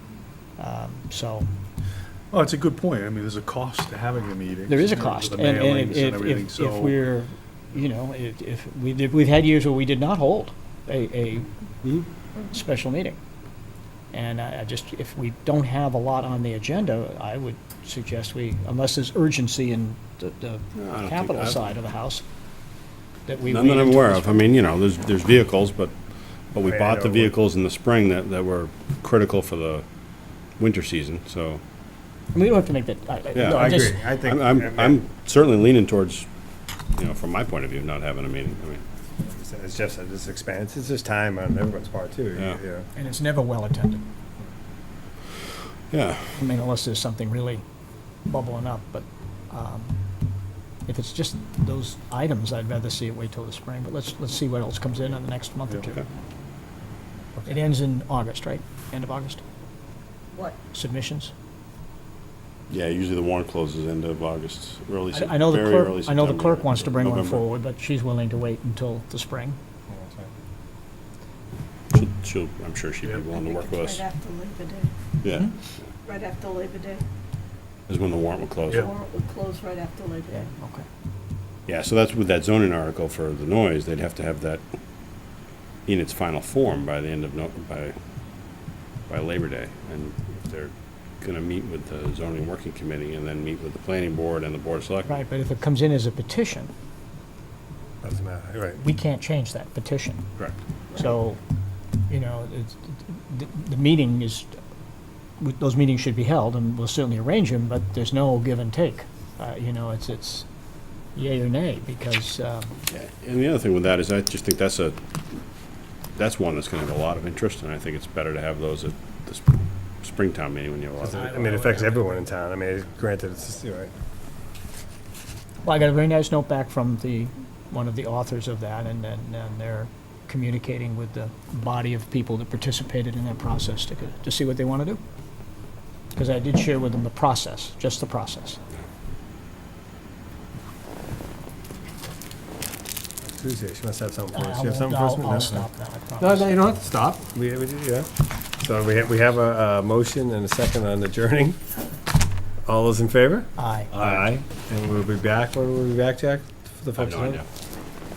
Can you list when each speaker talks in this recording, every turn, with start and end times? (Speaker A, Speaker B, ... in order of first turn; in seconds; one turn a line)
Speaker A: 0.6-1.5
Speaker B: 2.3-7.0
Speaker A: 4.7-11.5
Speaker A: 12.5-13.2
Speaker A: 14.1-22.2
Speaker C: 20.8-21.6
Speaker A: 23.2-24.5
Speaker C: 23.4-25.9
Speaker C: 26.5-29.8
Speaker D: 26.6-27.3
Speaker C: 30.6-31.6
Speaker A: 32.3-34.0
Speaker C: 33.3-36.3
Speaker D: 33.4-35.0
Speaker C: 36.9-38.8
Speaker D: 39.2-42.9
Speaker A: 42.9-44.0
Speaker C: 45.9-46.3
Speaker A: 46.3-47.6
Speaker A: 48.3-50.0
Speaker A: 50.9-56.0
Speaker A: 57.5-59.4
Speaker A: 60.7-61.3
Speaker C: 62.7-67.4
Speaker A: 65.1-69.6
Speaker D: 69.9-70.3
Speaker C: 71.9-74.0
Speaker E: 73.3-74.9
Speaker C: 75.2-75.5
Speaker E: 76.0-77.0
Speaker C: 77.9-78.9
Speaker E: 78.8-80.5
Speaker A: 80.3-80.9
Speaker C: 81.7-84.6
Speaker C: 85.9-87.9
Speaker C: 89.1-95.1
Speaker A: 95.0-96.7
Speaker D: 98.0-98.8
Speaker A: 98.8-100.3
Speaker A: 100.9-101.4
Speaker A: 102.1-104.5
Speaker A: 105.4-110.5
Speaker A: 111.1-112.8
Speaker C: 112.9-115.0
Speaker C: 116.2-121.4
Speaker D: 121.0-123.9
Speaker A: 121.0-122.3
Speaker A: 125.6-135.0
Speaker A: 136.1-138.6
Speaker D: 143.3-145.6
Speaker A: 144.3-146.6
Speaker D: 146.2-151.6
Speaker D: 152.7-157.4
Speaker A: 153.6-154.2
Speaker C: 157.0-157.4